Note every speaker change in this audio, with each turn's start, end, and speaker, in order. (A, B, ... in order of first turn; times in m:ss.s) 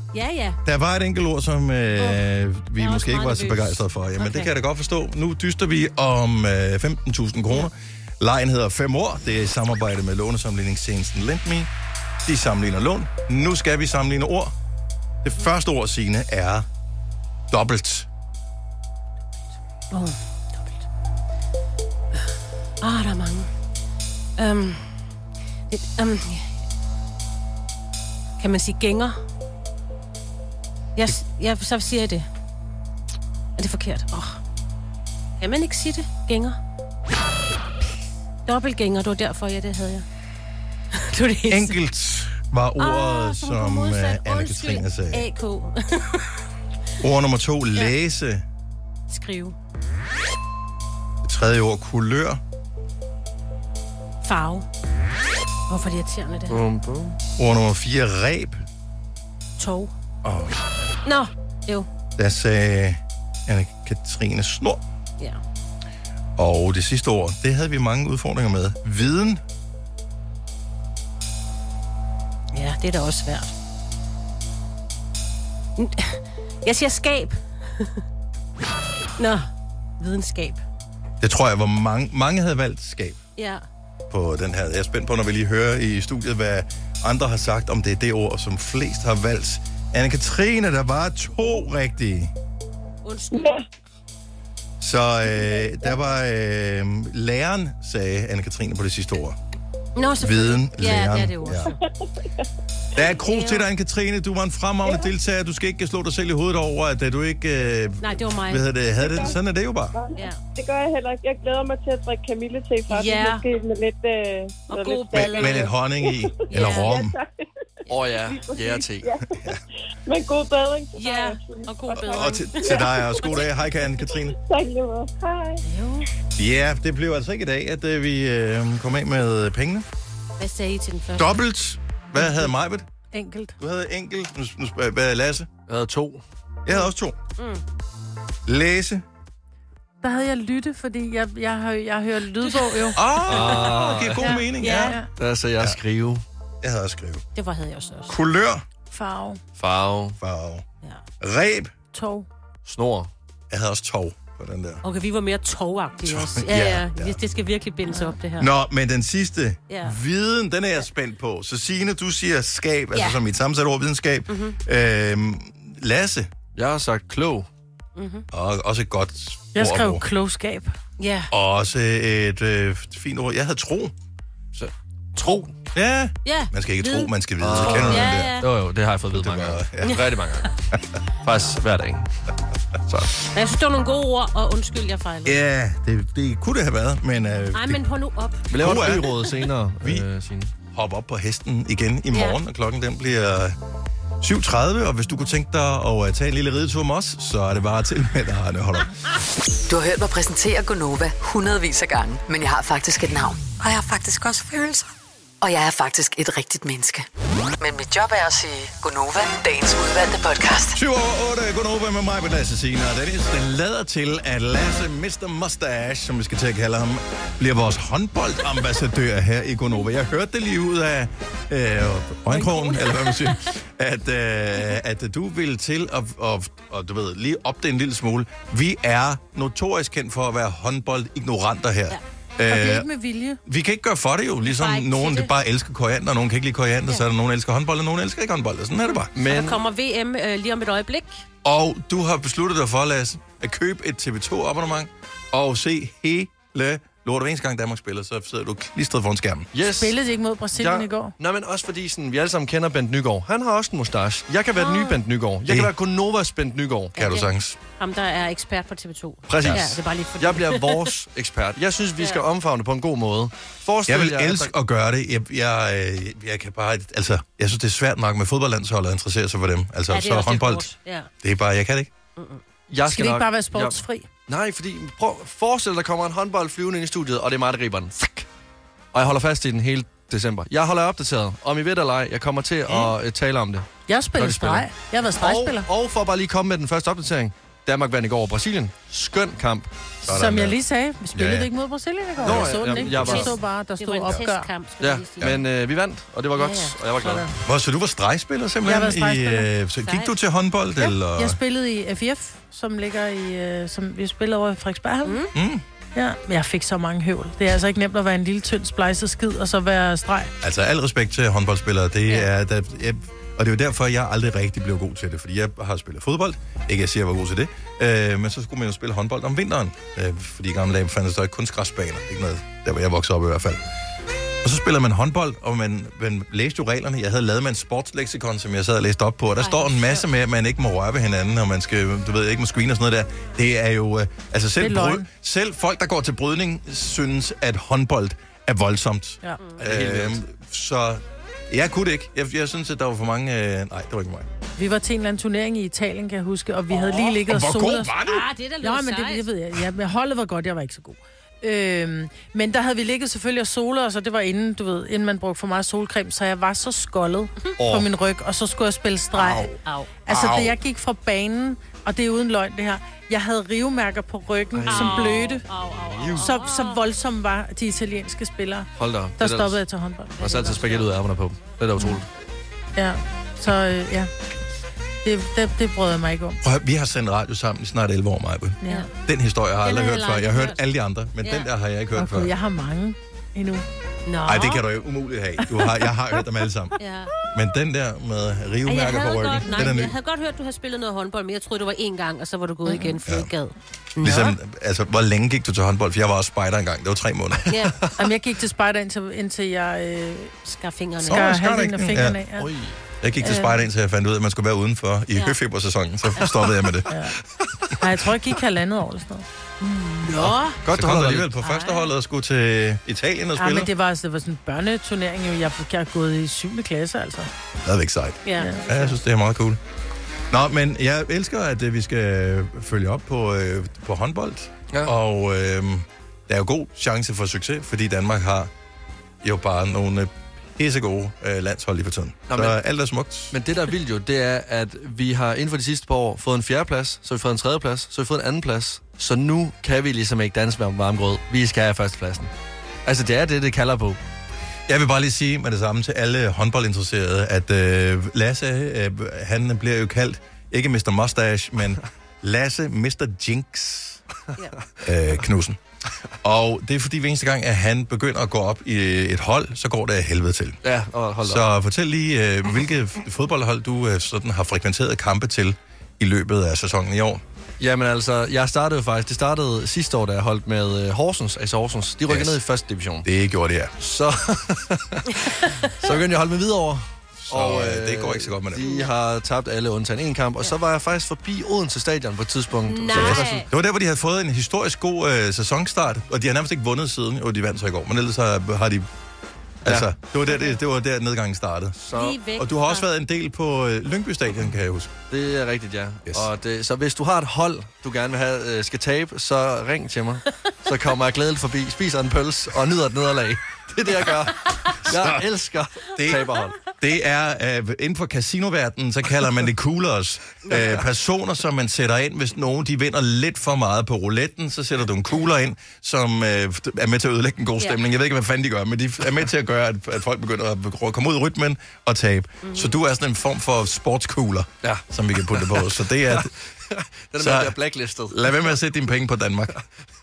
0:00.1-0:00.6 A
0:00.6-0:11.7 B
0:02.0-0:02.2 A
0:02.8-0:04.5 A
0:12.2-0:14.5 B
0:15.2-0:16.7 B
0:17.5-0:18.1 B
0:19.9-0:20.8 A
0:22.8-0:23.5 A
0:24.4-0:24.9 A
0:25.7-0:26.5 A
0:28.4-0:29.2 A
0:31.0-0:32.3 A
0:33.6-0:34.4 A
0:35.4-0:36.6 A
0:38.5-0:40.0 A
0:40.9-0:41.8 A
0:41.5-0:45.3 B
0:42.8-0:46.3 A
0:47.0-0:48.4 B
0:49.1-0:49.6 A
0:51.2-0:52.4 B
0:54.2-0:54.7 A
0:55.7-0:56.6 A
0:56.5-0:57.2 C
0:57.4-0:58.6 B
0:59.6-0:59.9 A
1:00.2-1:00.9 B
1:01.0-1:01.9 A
1:02.2-1:04.8 B
1:06.4-1:09.4 B
1:12.5-1:13.5 A
1:15.8-1:18.0 A
1:19.2-1:19.5 A
1:20.0-1:20.6 A
1:21.2-1:23.2 B
1:23.4-1:23.6 A
1:24.1-1:32.3 B
1:33.0-1:33.6 A
1:33.3-1:33.6 D
1:34.8-1:39.4 B
1:35.3-1:36.0 D
1:40.0-1:41.8 A
1:40.2-1:41.7 B
1:41.5-1:42.4 D
1:43.0-1:49.9 B
1:43.2-1:43.6 A
1:44.8-1:45.1 D
1:48.0-1:48.7 A
1:49.0-1:49.4 D
1:49.9-1:57.5 D
1:50.2-1:50.4 A
1:52.9-1:53.4 A
1:54.7-1:55.7 A
1:55.2-1:57.1 B
1:56.5-1:57.0 A
1:57.9-1:59.1 C
1:58.2-1:59.6 D
2:00.1-2:03.4 D
2:01.0-2:03.5 A
2:02.1-2:04.4 B
2:04.1-2:05.6 D
2:05.6-2:06.1 A
2:06.4-2:09.9 B
2:10.4-2:11.3 A
2:11.2-2:12.9 B
2:12.2-2:12.5 E
2:13.1-2:13.6 E
2:13.6-2:15.5 B
2:15.7-2:16.2 C
2:16.7-2:17.2 B
2:17.4-2:17.6 A
2:18.5-2:19.0 B
2:20.0-2:23.0 E
2:22.4-2:25.0 A
2:23.0-2:25.0 B
2:23.3-2:24.3 C
2:24.2-2:25.1 E
2:25.2-2:26.2 C
2:26.6-2:27.2 B
2:27.4-2:28.2 A
2:28.1-2:28.6 B
2:28.9-2:29.4 E
2:29.6-2:30.2 C
2:30.2-2:30.6 B
2:31.2-2:31.7 B
2:31.9-2:32.3 E
2:32.6-2:33.1 C
2:33.5-2:34.8 B
2:34.8-2:38.5 A
2:36.0-2:37.2 B
2:38.4-2:46.3 B
2:39.7-2:40.0 A
2:42.9-2:43.2 A
2:44.3-2:44.6 A
2:46.6-2:47.5 C
2:48.0-2:48.3 A
2:48.3-2:50.0 B
2:49.6-2:50.8 E
2:51.0-2:51.3 A
2:51.3-2:53.9 B
2:54.5-2:55.5 C
2:55.7-2:58.4 B
2:56.2-2:58.5 A
2:57.4-3:00.5 C
2:59.1-3:00.0 B
2:59.8-3:00.1 A
3:01.2-3:02.1 C
3:02.9-3:03.1 C
3:03.3-3:05.4 A
3:05.2-3:07.8 B
3:07.5-3:09.1 A
3:08.5-3:10.5 C
3:08.6-3:09.1 B
3:09.8-3:10.1 B
3:10.7-3:13.6 B
3:12.1-3:12.4 A
3:14.2-3:18.9 B
3:19.7-3:24.9 F
3:25.4-3:27.1 F
3:27.6-3:30.8 F
3:30.7-3:52.9 B
3:42.3-3:43.4 A
3:52.5-3:53.4 E
3:53.4-3:59.1 B
3:54.4-3:55.3 A
3:58.8-4:01.2 A
3:59.1-3:59.6 C
4:01.4-4:09.5 B
4:09.5-4:10.0 C
4:09.7-4:11.1 E
4:10.5-4:17.0 C
4:14.6-4:15.0 A
4:15.4-4:15.7 B
4:17.0-4:21.0 A
4:17.0-4:17.6 B
4:19.3-4:24.5 C
4:22.0-4:22.2 A
4:23.9-4:30.7 B
4:29.9-4:31.1 A
4:31.2-4:31.9 B
4:32.2-4:32.4 A
4:32.7-4:38.3 C
4:32.9-4:34.1 E
4:38.9-4:49.7 C
4:43.9-4:45.7 E
4:50.0-4:50.6 B
4:50.0-4:54.5 E
4:51.1-4:51.5 B
4:52.2-4:53.4 C
4:52.2-4:53.2 B
4:52.4-4:55.4 A
4:54.8-4:57.3 C
4:56.4-4:56.8 A
4:57.0-4:57.3 E
4:57.4-5:01.4 B
4:58.6-4:59.5 E
4:59.8-5:00.1 A
5:00.8-5:05.2 E
5:05.0-5:05.3 A
5:05.4-5:05.6 B
5:06.0-5:10.3 E
5:10.4-5:23.6 B
5:24.4-5:44.3 B
5:29.4-5:30.1 A
5:34.6-5:35.1 E
5:39.6-5:40.2 C
5:44.6-5:48.0 E
5:46.8-5:48.3 B
5:48.0-5:49.3 A
5:48.6-6:05.5 E
5:57.6-5:57.9 C
5:59.6-5:59.9 A
6:00.1-6:00.5 C
6:04.5-6:05.4 C
6:04.7-6:06.8 A
6:05.9-6:06.3 C
6:06.2-6:10.8 E
6:08.8-6:09.6 C
6:10.2-6:12.1 C
6:12.8-6:14.1 E
6:15.0-6:16.4 E
6:16.4-6:22.3 B
6:19.6-6:20.6 A
6:21.2-6:21.5 A
6:22.0-6:23.7 E
6:24.1-6:24.6 A
6:24.3-6:26.8 B
6:26.8-6:27.1 A
6:27.3-6:30.0 B
6:28.7-6:34.4 A
6:32.7-6:33.0 E
6:34.0-6:37.5 B
6:37.5-6:37.8 A
6:38.0-6:40.3 E
6:40.4-6:41.3 A
6:41.0-6:42.2 B
6:41.1-6:42.5 E
6:42.4-6:42.8 C
6:43.0-6:46.9 B
6:43.2-6:43.6 E
6:46.9-6:47.2 E
6:47.8-6:49.2 E
6:49.6-6:50.6 A
6:50.2-6:53.7 B
6:50.6-6:51.3 C
6:51.4-6:51.9 A
6:53.4-6:57.3 E
6:57.6-6:59.6 B
6:58.2-6:58.6 A
6:58.4-6:59.0 E
7:00.3-7:08.5 B
7:09.2-7:13.4 B
7:12.3-7:12.6 C
7:13.3-7:22.3 C
7:22.8-7:24.0 C
7:24.7-7:34.0 B
7:34.8-7:35.6 B
7:36.2-7:40.6 B
7:40.6-7:41.4 C
7:41.2-7:47.2 B
7:47.6-7:53.1 C
7:52.1-7:52.4 B
7:53.0-7:53.7 B
7:53.8-7:55.2 C
7:55.8-8:03.4 C
7:57.2-7:58.7 B
7:58.6-7:58.9 A
8:02.7-8:03.5 A
8:02.9-8:08.9 B
8:09.6-8:11.8 B
8:10.3-8:10.6 A
8:11.8-8:12.2 C
8:11.9-8:12.9 A
8:12.3-8:14.9 B
8:15.1-8:26.6 C
8:24.8-8:25.3 B
8:26.0-8:46.3 B
8:42.4-8:42.8 A
8:44.6-8:48.5 C
8:47.2-8:47.6 B
8:48.1-8:49.6 B